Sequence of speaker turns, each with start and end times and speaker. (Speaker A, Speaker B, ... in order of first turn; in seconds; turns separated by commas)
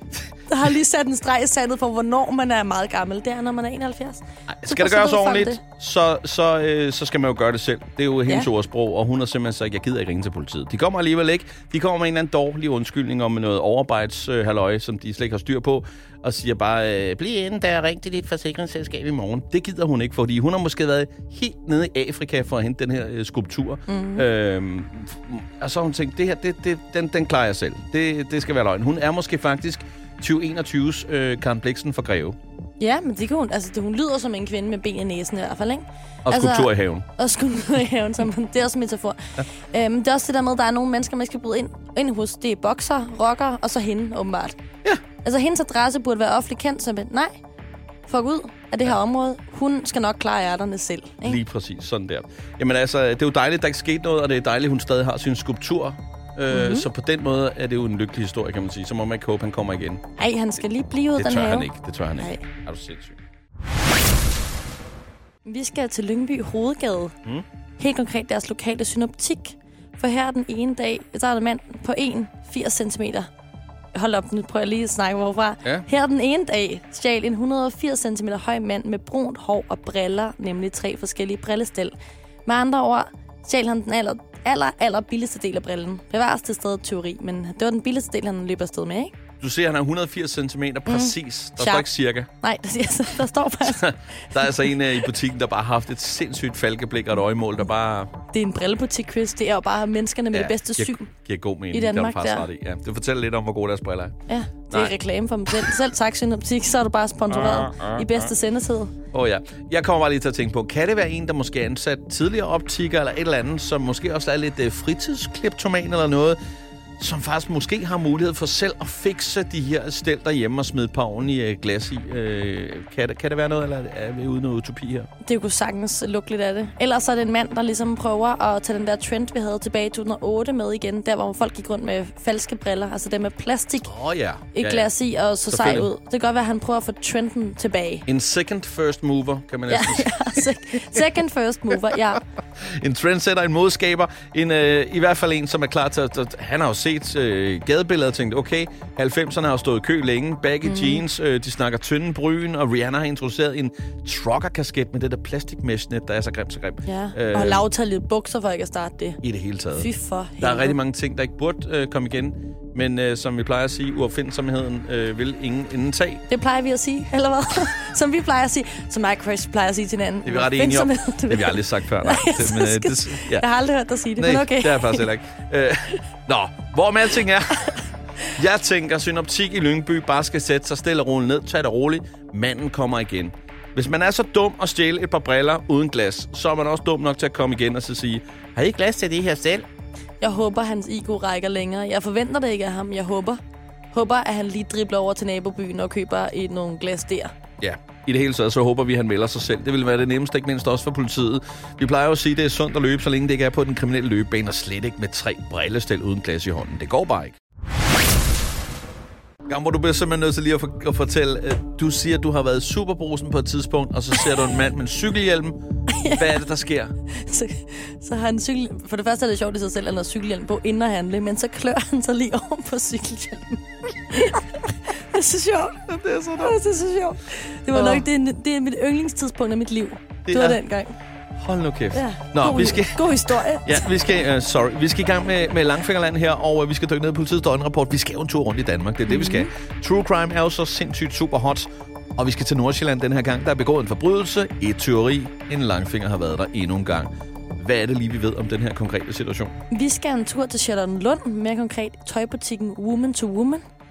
Speaker A: 0.5-5.6, Speaker B: 4.5-32.4, Speaker A: 23.9-24.3, Speaker A: 32.8-44.6, Speaker B: 36.2-37.1, Speaker A: 45.2-47.4, Speaker A: 48.1-51.4, Speaker B: 51.2-60.0, Speaker A: 56.5-56.9, Speaker A: 60.2-62.4, Speaker B: 61.2-63.2, Speaker A: 65.5-67.2, Speaker A: 67.8-73.3, Speaker A: 73.9-82.0, Speaker A: 82.5-89.1, Speaker B: 89.4-92.3, Speaker A: 90.9-94.5, Speaker B: 93.6-98.1, Speaker A: 98.3-101.1, Speaker B: 100.3-104.2, Speaker A: 101.7-102.5, Speaker A: 104.3-108.9, Speaker B: 104.7-105.0, Speaker B: 107.3-108.3, Speaker B: 109.1-116.4, Speaker B: 117.0-125.1, Speaker A: 125.2-133.9, Speaker B: 133.8-134.9, Speaker A: 134.5-138.1, Speaker B: 135.5-135.9, Speaker B: 138.1-140.4, Speaker A: 139.7-142.2, Speaker B: 142.6-157.6, Speaker A: 150.6-151.0, Speaker A: 156.8-159.2, Speaker B: 159.2-159.9, Speaker A: 159.8-160.8, Speaker B: 160.4-166.2, Speaker A: 166.3-175.1, Speaker B: 170.2-173.5, Speaker B: 174.2-177.8, Speaker B: 178.3-189.7, Speaker A: 190.2-193.4, Speaker A: 193.9-197.3, Speaker B: 197.6-207.4, Speaker B: 209.5-216.9, Speaker A: 215.9-216.3, Speaker A: 217.1-225.9, Speaker B: 225.8-226.6, Speaker A: 226.4-231.0, Speaker B: 227.7-228.1, Speaker B: 230.3-230.6, Speaker B: 231.4-249.6, Speaker A: 231.9-233.9, Speaker A: 239.1-239.5, Speaker A: 249.7-253.6